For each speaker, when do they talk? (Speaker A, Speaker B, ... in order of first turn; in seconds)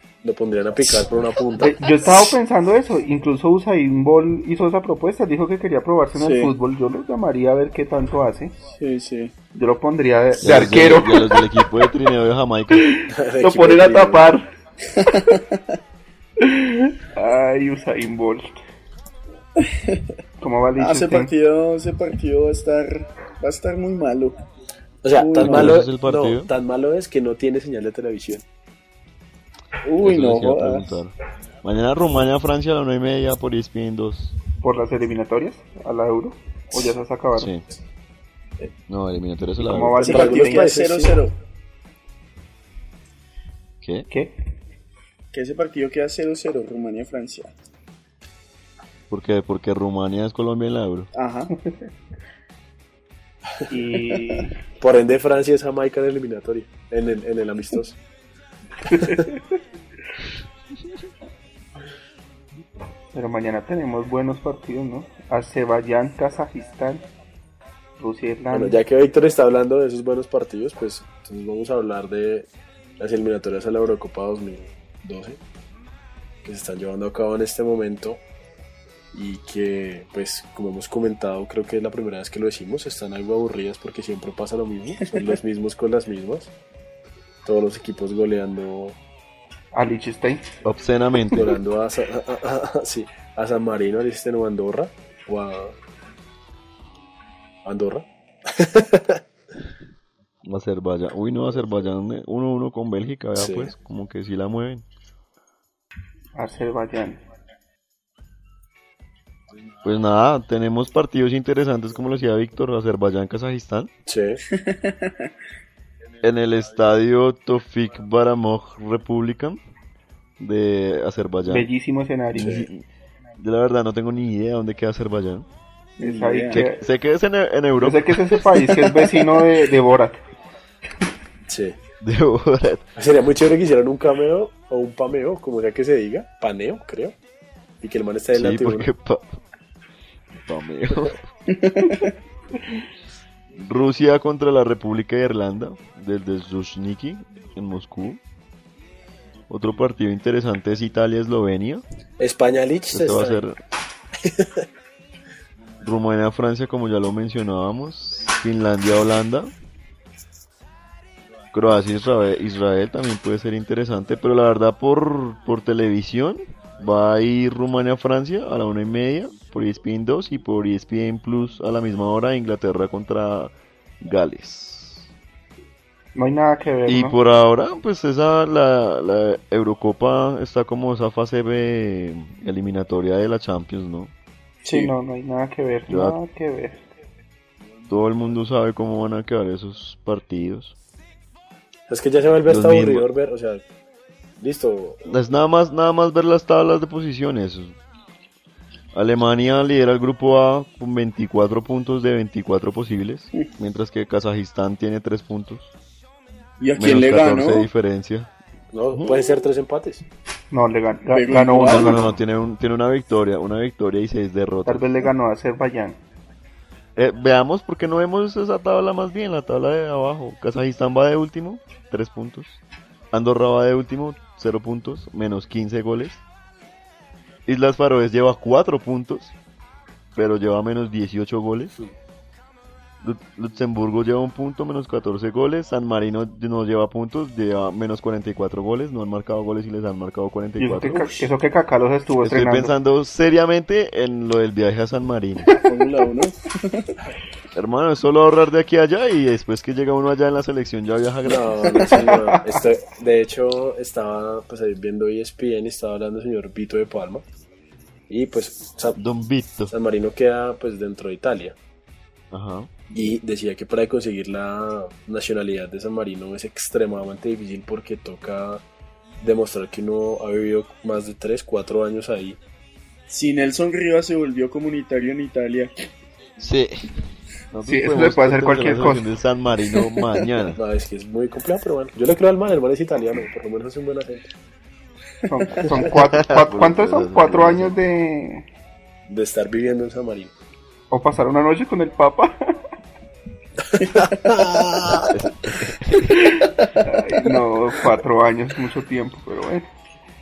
Speaker A: 0.2-2.2, 13.1-14.3, 25.0-28.4, 40.1-41.2, 54.8-58.0, 58.9-59.3, 68.5-72.5, 73.0-75.4, 76.4-78.2, 79.1-86.5, 87.5-89.0, 91.3-95.8, 97.7-99.2, 103.4-103.7, 114.1-114.4, 131.5-131.8, 133.0-137.2, 137.8-138.9, 152.2-153.4, 154.2-154.7, 191.9-193.6, 194.4-195.0, 208.7-210.0, 251.2-257.2, 258.1-259.0, 259.7-261.6, 262.9-268.6, 269.2-272.4, 280.6-284.3, 289.1-290.3, 293.8-295.1
Speaker B: 1.6-8.6, 9.5-11.6, 12.7-14.5, 16.4-18.6, 20.4-21.3, 34.6-37.5, 39.6-40.8, 53.7-54.6, 63.1-67.0, 68.0-68.8, 89.7-90.5, 106.4-107.2, 121.5-122.7, 126.0-126.8, 127.8-130.2, 176.2-177.2, 184.7-186.8, 210.5-212.1, 214.7-216.0, 240.6-242.7, 277.6-279.1, 285.3-288.4, 290.9-292.6, 296.1-299.7
Speaker C: 6.2-6.5, 8.7-9.3, 14.9-15.6, 19.6-20.0, 20.8-24.4, 25.2-25.8, 29.8-31.0, 40.0-41.4, 45.3-47.5, 51.1-51.5, 114.5-115.3, 126.0-126.7, 128.6-129.4, 141.5-142.1, 184.6-184.9, 206.6-207.7, 211.1-212.1, 245.5-247.0, 273.1-275.7, 293.8-294.4
Speaker D: 10.4-12.9, 25.4-26.5, 30.0-34.4, 37.4-37.6, 38.9-40.0, 43.8-44.1, 49.1-51.1, 90.6-91.5, 100.4-104.8, 109.8-113.9, 116.2-119.6, 120.4-121.7, 122.3-122.8, 123.4-125.5, 126.5-128.2, 132.0-132.9, 138.3-139.4, 140.4-141.2, 143.6-148.2, 149.5-151.8, 152.9-153.6, 155.8-159.5, 161.5-175.1, 176.9-184.1, 185.9-186.2, 187.9-190.8, 192.5-193.1, 195.1-197.8, 198.9-205.7, 206.8-208.3, 208.9-209.2, 211.7-214.9, 217.0-222.6, 223.1-226.2, 227.5-229.3, 230.2-231.7, 233.0-241.2, 242.2-245.6, 247.5-251.7, 259.0-259.7, 262.3-262.7, 276.4-276.9, 277.5-280.6, 285.9-287.8, 295.1-296.2